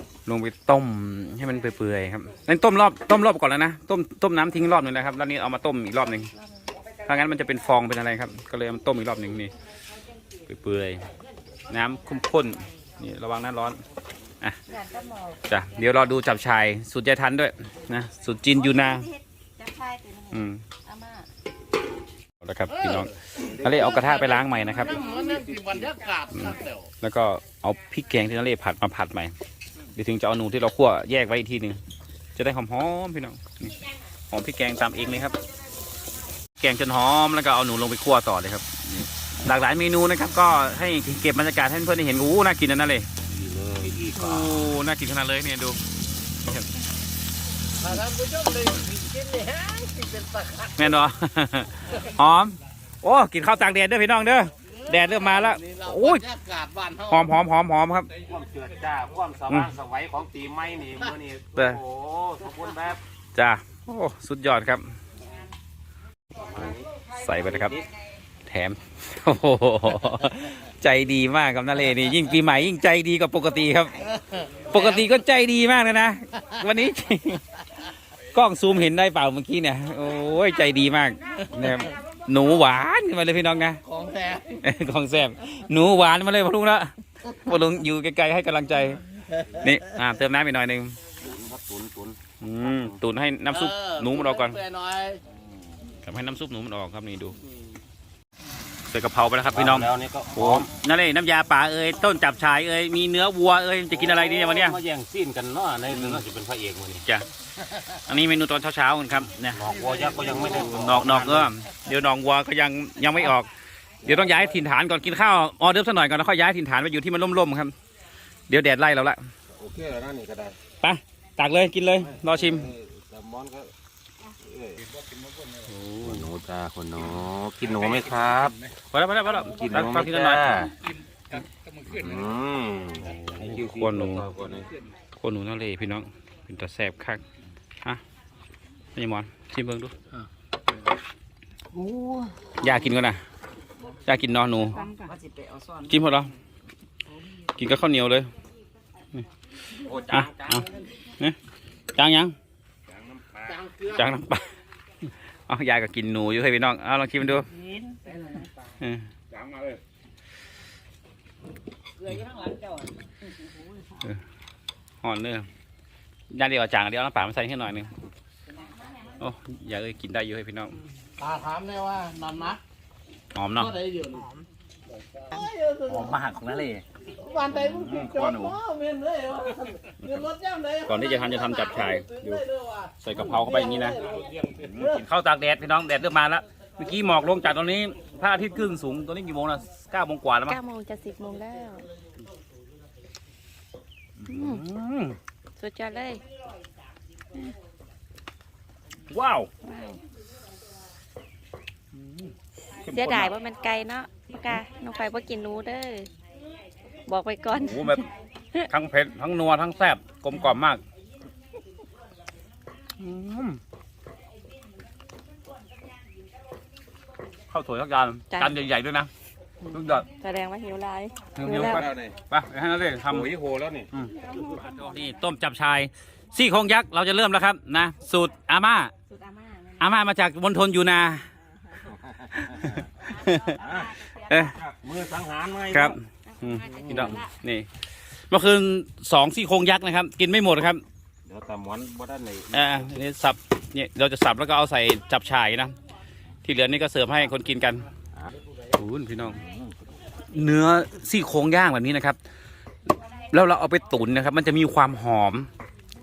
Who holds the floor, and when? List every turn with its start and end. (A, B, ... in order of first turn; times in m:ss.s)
0:00.3-0:06.3 A
0:07.1-0:09.5 A
0:10.5-0:11.1 A
0:11.7-0:13.8 A
0:14.7-0:15.4 B
0:15.5-0:19.1 A
0:18.5-0:21.3 B
0:20.3-0:20.6 A
0:22.4-0:25.0 A
0:23.4-0:26.1 C
0:26.0-0:26.8 D
0:26.3-0:29.3 A
0:30.0-0:31.8 A
0:32.4-0:33.8 A
0:34.3-0:35.4 A
0:36.6-0:43.1 A
0:43.3-0:44.8 C
0:44.2-0:45.8 A
0:47.8-0:50.7 D
0:50.8-0:56.3 A
0:55.7-0:57.0 D
0:57.0-0:58.1 A
0:58.2-1:03.0 C
1:03.4-1:04.9 A
1:06.3-1:07.0 C
1:06.6-1:07.8 A
1:08.5-1:14.0 A
1:14.7-1:17.4 A
1:18.3-1:23.8 A
1:23.9-1:24.6 D
1:24.6-1:29.0 A
1:29.6-1:31.0 A
1:31.2-1:32.2 C
1:32.4-1:34.6 A
1:32.7-1:33.0 C
1:34.6-1:35.2 D
1:36.0-1:37.4 A
1:38.9-1:44.8 A
1:39.5-1:40.7 C
1:43.9-1:47.0 C
1:45.9-1:46.2 A
1:48.1-1:49.7 A
1:49.5-1:51.5 C
1:50.3-1:53.5 A
1:54.0-1:57.7 A
1:58.5-1:59.2 A
1:59.5-2:00.6 C
2:00.8-2:02.7 A
2:02.0-2:03.7 C
2:04.4-2:04.9 C
2:05.7-2:06.3 A
2:06.0-2:08.7 C
2:08.9-2:10.7 A
2:09.4-2:10.7 C
2:11.8-2:14.7 C
2:13.1-2:14.3 A
2:15.2-2:17.2 A
2:19.0-2:19.9 A
2:22.6-2:23.2 A
2:24.0-2:24.8 A
2:24.8-2:25.8 B
2:25.8-2:26.3 A
2:27.5-2:28.3 A
2:29.8-2:30.8 C
2:30.1-2:30.7 A
2:31.9-2:32.4 A
2:32.9-2:33.7 C
2:33.9-2:34.5 A
2:35.5-2:37.5 A
2:38.8-2:39.0 A
2:39.3-2:39.8 C
2:45.0-2:45.5 A
2:46.3-2:47.9 A
2:49.2-2:50.8 A
2:51.2-2:52.6 D
2:53.3-2:53.8 A
2:53.9-2:54.2 D
2:55.5-2:55.8 D
2:55.8-2:56.8 A
2:57.4-2:58.6 A
2:57.4-3:00.8 D
3:00.0-3:00.3 A
3:00.8-3:02.4 A
3:02.5-3:02.9 D
3:03.0-3:10.6 A
3:10.5-3:11.9 B
3:14.2-3:15.2 A
3:14.3-3:14.6 B
3:15.6-3:16.2 B
3:19.1-3:19.5 A
3:19.6-3:20.0 B
3:21.9-3:23.3 A
3:22.8-3:26.1 B
3:27.1-3:28.6 B
3:27.6-3:28.1 A
3:28.7-3:30.8 A
3:33.0-3:33.6 A
3:37.5-3:39.1 A
3:38.3-3:38.6 B
3:39.6-3:41.8 B
3:39.7-3:40.1 A
3:41.4-3:43.3 A
3:41.5-3:42.2 C
3:43.1-3:43.9 C
3:43.9-3:48.9 A
3:44.1-3:44.9 B
3:49.1-3:50.0 B
3:49.8-3:51.3 A
3:51.8-3:52.8 C
3:52.4-3:53.6 A
3:53.2-3:54.2 B
3:53.6-3:56.0 C
3:54.2-3:54.6 A
3:55.7-3:57.7 A
3:56.3-3:57.3 B
3:58.3-4:00.8 A
4:01.3-4:02.8 C
4:02.5-4:05.8 A
4:06.4-4:07.9 A
4:08.8-4:09.4 A
4:09.3-4:09.7 C
4:10.3-4:12.2 A
4:13.2-4:15.5 A